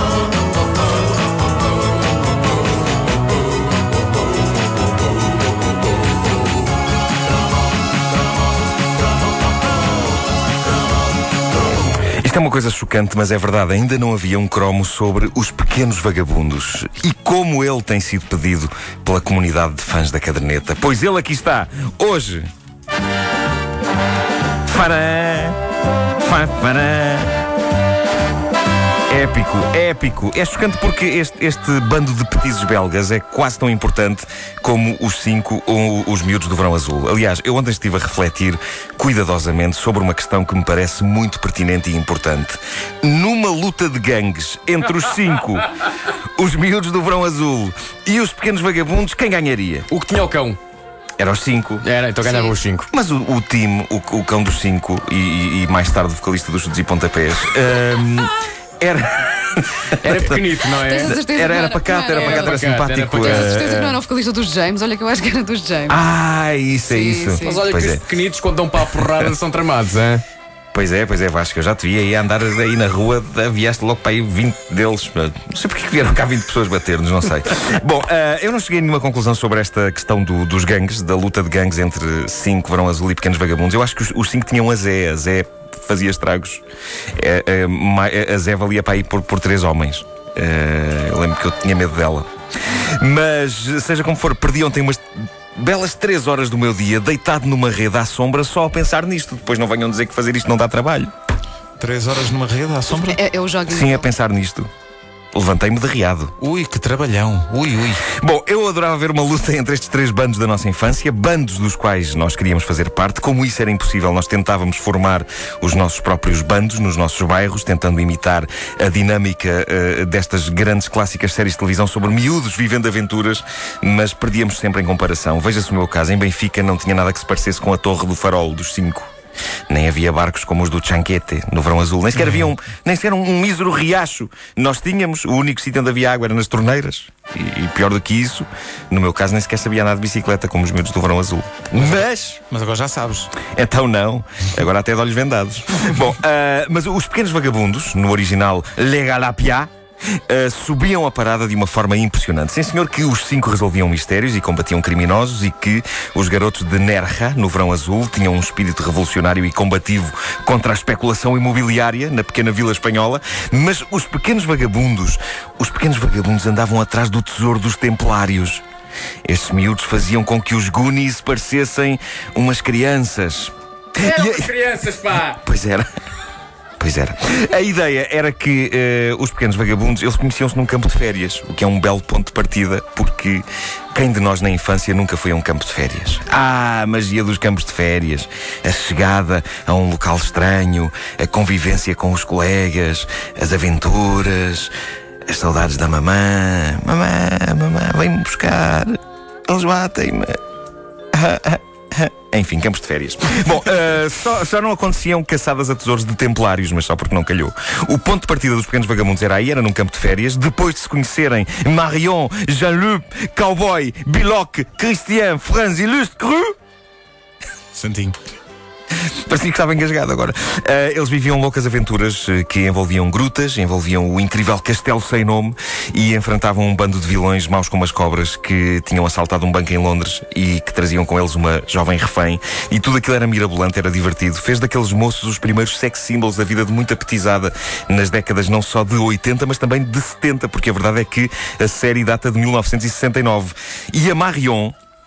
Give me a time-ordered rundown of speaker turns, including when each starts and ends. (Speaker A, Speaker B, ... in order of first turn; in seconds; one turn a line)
Speaker A: 12.1-22.5
Speaker A: 24.7-25.6
Speaker A: 26.2-27.4
Speaker A: 29.1-49.9
Speaker B: 49.9-50.6
Speaker A: 51.2-51.9
Speaker B: 51.8-52.9
Speaker C: 52.2-52.5
Speaker A: 52.9-64.0
Speaker B: 60.0-61.1
Speaker C: 60.8-62.6
Speaker B: 62.1-63.5
Speaker C: 63.2-66.0
Speaker A: 65.9-68.0
Speaker C: 66.8-67.6
Speaker B: 67.4-70.2
Speaker A: 68.8-69.3
Speaker A: 70.7-86.6
Speaker A: 87.2-92.3
Speaker A: 93.0-95.0
Speaker A: 95.5-101.1
Speaker D: 101.8-103.2
Speaker C: 102.9-104.1
Speaker A: 103.7-104.7
Speaker A: 105.3-106.3
Speaker D: 106.4-108.0
Speaker A: 108.0-129.1
Speaker A: 129.7-142.4
Speaker D: 141.8-143.3
Speaker A: 143.5-149.7
Speaker A: 150.3-168.6
Speaker A: 169.2-174.5
Speaker B: 174.0-175.4
Speaker A: 175.3-175.9
Speaker A: 176.8-194.7
Speaker A: 195.3-200.4
Speaker A: 201.1-216.5
Speaker D: 217.7-218.2
Speaker A: 219.3-244.7